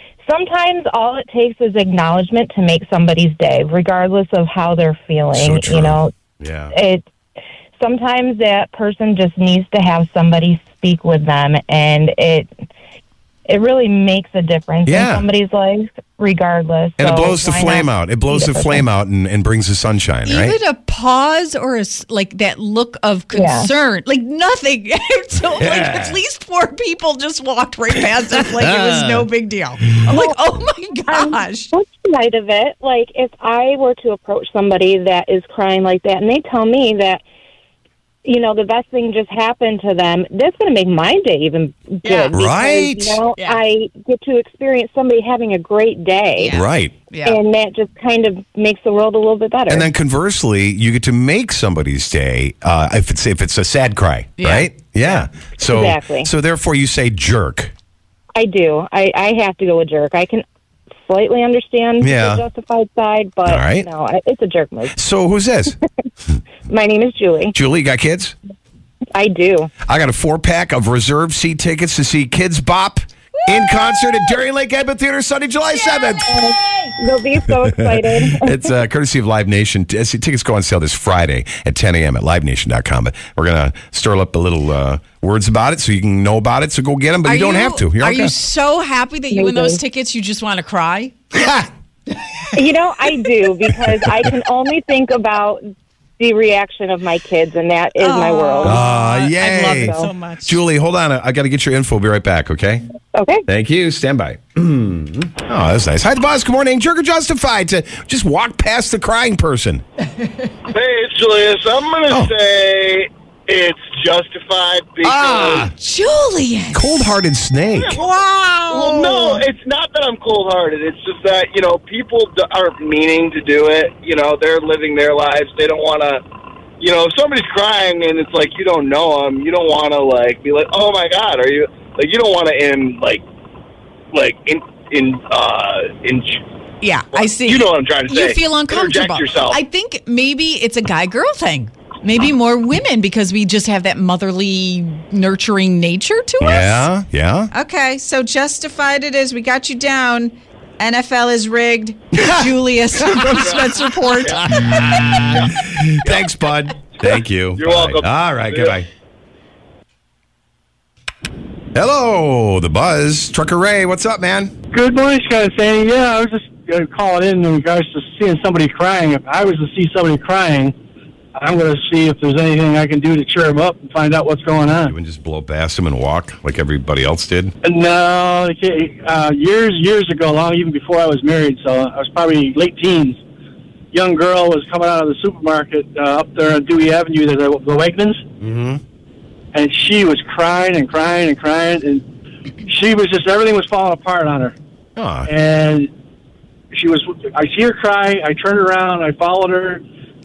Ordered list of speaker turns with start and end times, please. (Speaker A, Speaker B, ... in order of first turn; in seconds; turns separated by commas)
Speaker A: 0.2-6.1, Speaker B: 5.3-6.7, Speaker A: 6.7-7.0, Speaker A: 7.8-12.5, Speaker A: 13.4-18.8, Speaker B: 14.8-15.3, Speaker B: 17.0-20.6, Speaker C: 20.2-31.7, Speaker A: 23.3-23.7, Speaker B: 25.5-26.2, Speaker B: 28.6-29.2, Speaker A: 30.1-30.4, Speaker A: 31.1-37.2, Speaker A: 38.2-46.5, Speaker C: 42.0-42.4, Speaker B: 42.3-43.2, Speaker C: 43.3-43.6, Speaker C: 46.4-47.4, Speaker B: 46.5-46.9, Speaker A: 47.2-49.9, Speaker B: 49.7-57.7, Speaker C: 54.4-55.2, Speaker A: 55.6-56.3, Speaker A: 58.3-60.4, Speaker A: 61.0-65.0, Speaker B: 62.0-62.4, Speaker B: 63.4-63.9, Speaker B: 64.9-65.8, Speaker A: 66.7-67.5, Speaker B: 67.5-68.3, Speaker A: 69.1-69.7, Speaker B: 69.8-76.4, Speaker C: 73.4-74.0, Speaker C: 75.8-76.2, Speaker A: 76.3-78.6, Speaker B: 77.6-88.3, Speaker C: 87.2-91.2, Speaker A: 89.3-89.8, Speaker A: 92.5-95.6, Speaker A: 96.2-98.8, Speaker C: 98.0-100.6, Speaker B: 98.6-102.9, Speaker A: 99.5-100.1, Speaker A: 103.1-103.5, Speaker B: 103.5-109.8, Speaker D: 110.7-115.7, Speaker B: 115.0-115.7, Speaker C: 115.6-117.1, Speaker B: 116.7-118.0, Speaker D: 117.7-118.0, Speaker C: 117.9-119.4, Speaker D: 118.7-126.2, Speaker D: 126.8-133.2, Speaker D: 134.1-136.4, Speaker C: 136.8-146.9, Speaker D: 137.1-139.6, Speaker B: 146.4-147.5, Speaker C: 147.5-154.6, Speaker B: 152.1-153.4, Speaker D: 153.4-155.4, Speaker B: 154.3-158.9, Speaker D: 157.6-158.8, Speaker B: 161.7-164.5, Speaker E: 164.7-170.7, Speaker E: 171.3-174.9, Speaker B: 174.8-177.5, Speaker E: 177.6-183.2, Speaker E: 183.9-188.2, Speaker B: 188.4-188.8, Speaker E: 189.5-192.0, Speaker E: 192.6-194.5, Speaker B: 195.0-195.3, Speaker E: 195.3-195.9, Speaker E: 196.7-199.8